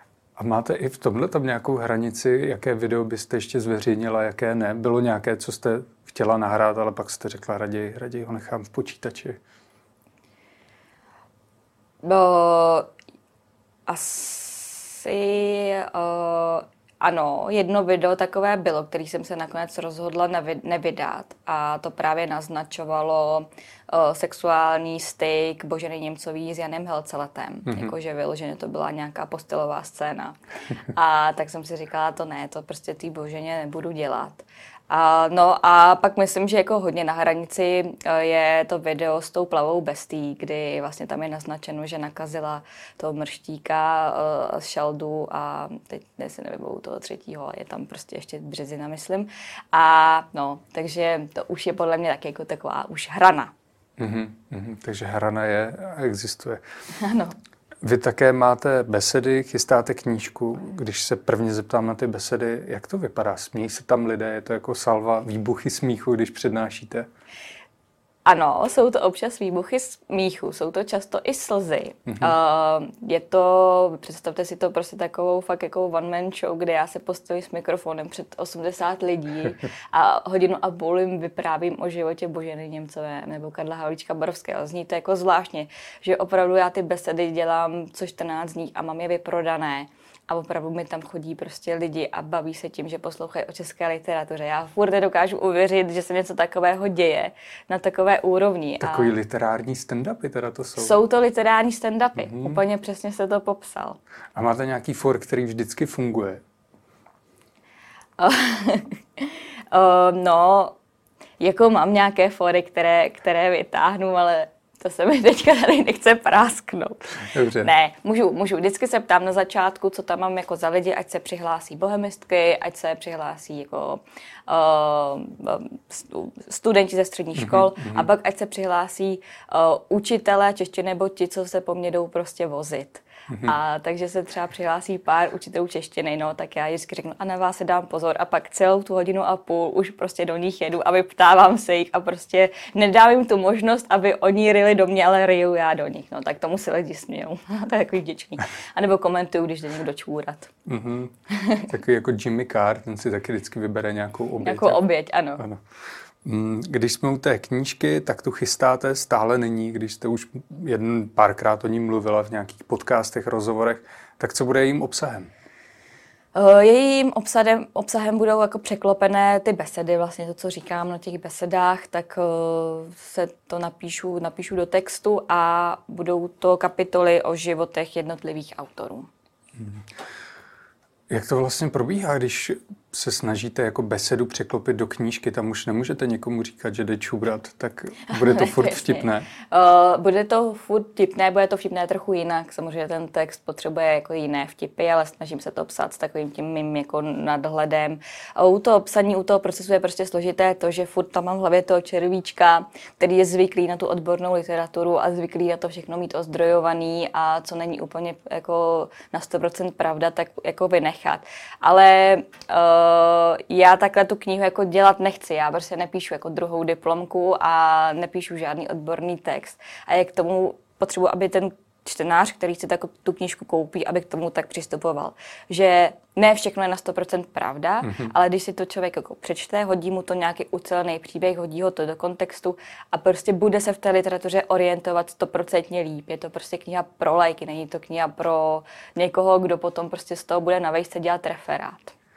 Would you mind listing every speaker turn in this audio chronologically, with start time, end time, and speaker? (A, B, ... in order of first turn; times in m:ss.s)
0:00.4-0:09.4 A
0:12.0-0:12.9 B
0:13.9-0:30.4 B
0:30.9-0:53.5 B
0:54.0-0:56.6 A
0:57.0-0:57.4 B
0:57.8-1:07.1 A
1:08.2-1:39.1 B
1:12.1-1:12.3 A
1:38.8-1:40.9 A
1:40.8-1:44.0 B
1:42.2-1:42.6 A
1:44.4-1:46.4 A
1:48.2-1:50.8 B
1:51.4-2:30.5 B
1:57.3-1:57.7 A
2:07.4-2:08.1 A
2:13.3-2:13.6 A
2:30.7-2:35.6 A
2:31.3-2:31.6 B
2:34.4-2:35.4 B
2:36.2-2:45.3 A
2:46.4-2:59.1 B
2:59.6-2:59.8 A
3:01.1-3:09.3 A
3:08.1-4:01.9 B
3:47.9-3:48.1 A